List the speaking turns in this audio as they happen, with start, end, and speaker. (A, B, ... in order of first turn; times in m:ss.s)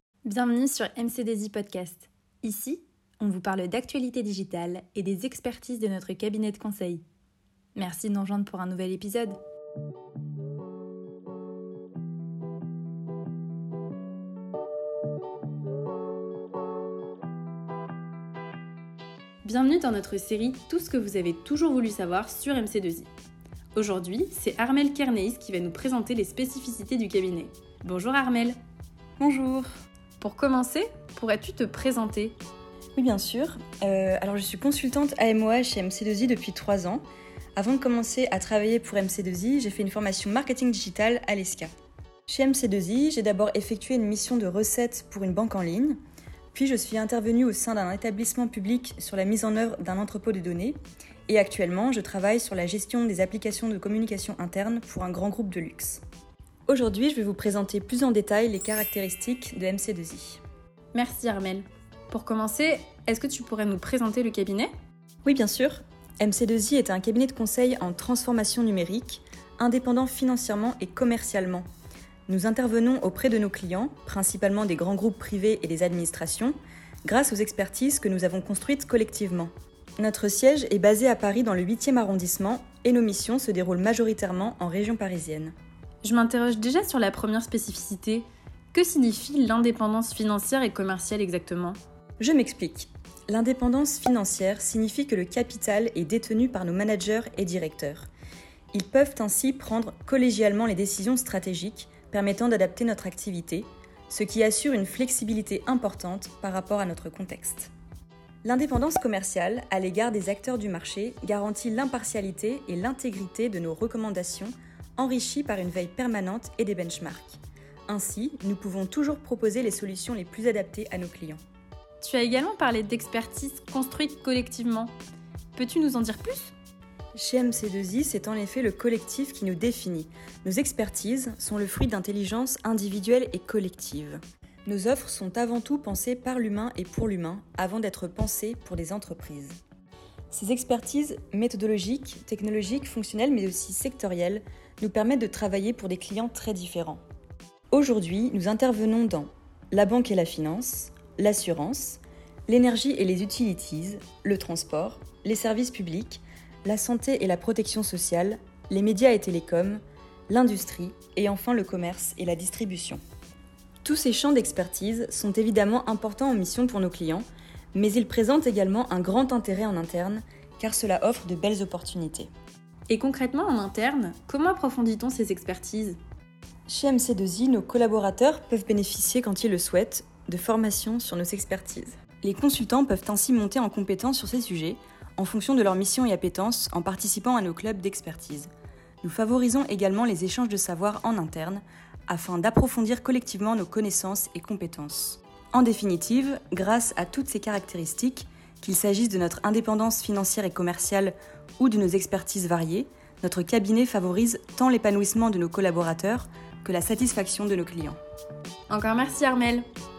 0:00.2-0:07.0 A
0:07.7-0:09.4 A
0:19.4-0:23.1 A
0:23.7-0:28.6 A
0:29.2-0:29.7 B
0:30.2-0:32.4 A
0:33.0-0:37.0 B
0:37.6-0:41.7 B
0:42.3-0:46.0 B
0:46.5-0:56.0 B
0:56.7-1:00.4 B
1:00.9-1:04.7 A
1:05.2-1:11.6 B
1:12.3-1:25.5 B
1:26.0-1:31.8 A
1:32.2-1:38.1 B
1:38.7-1:47.7 B
1:48.4-2:01.4 B
2:02.0-2:05.0 A
2:05.5-2:06.5 A
2:07.1-2:19.6 B
2:20.3-2:27.0 B
2:27.7-2:43.0 B
2:43.8-2:52.3 B
2:52.9-2:56.0 A
2:56.7-3:08.5 B
3:09.0-3:28.0 B
3:28.7-3:29.6 A